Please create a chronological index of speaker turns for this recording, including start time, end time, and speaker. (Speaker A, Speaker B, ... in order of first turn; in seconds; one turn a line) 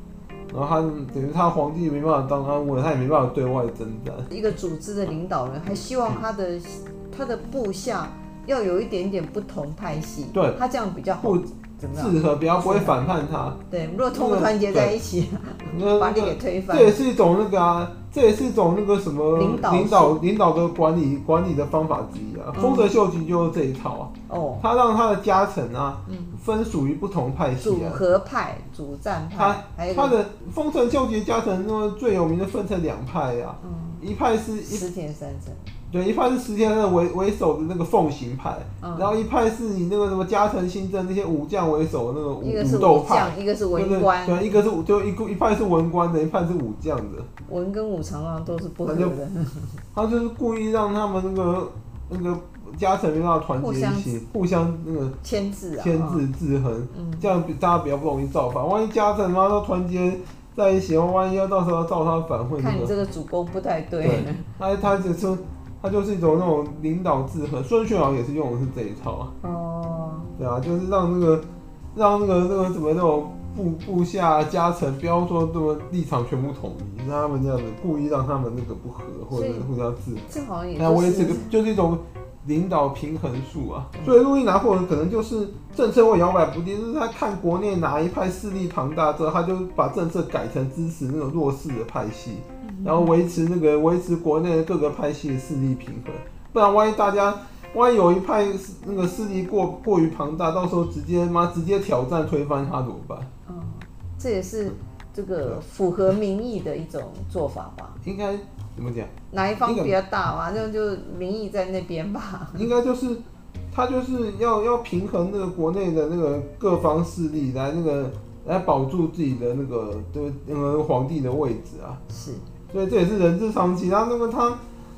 Speaker A: 0.5-4.3
Speaker B: 4.3-13.0
Speaker A: 10.3-10.6
Speaker A: 11.2-13.6
Speaker B: 13.7-17.0
Speaker A: 14.1-15.0
Speaker A: 15.6-28.0
Speaker B: 19.3-20.2
Speaker B: 22.5-22.9
Speaker B: 24.3-24.6
Speaker B: 26.1-26.4
Speaker B: 27.6-30.2
Speaker A: 29.4-34.9
Speaker B: 33.6-34.0
Speaker B: 34.6-35.7
Speaker A: 35.9-47.3
Speaker B: 38.8-39.1
Speaker B: 42.4-44.6
Speaker B: 47.5-49.8
Speaker A: 48.9-49.1
Speaker A: 49.9-55.1
Speaker B: 53.6-54.1
Speaker B: 55.2-56.2
Speaker A: 55.8-62.9
Speaker B: 56.9-57.2
Speaker B: 62.6-64.5
Speaker A: 64.0-69.3
Speaker B: 69.4-70.3
Speaker A: 70.4-103.3
Speaker B: 79.3-79.7
Speaker B: 80.3-81.6
Speaker B: 92.6-93.1
Speaker B: 103.5-108.0
Speaker A: 108.0-109.1
Speaker B: 109.3-112.7
Speaker A: 109.6-109.9
Speaker A: 112.5-122.0
Speaker B: 122.1-122.5
Speaker A: 122.7-124.6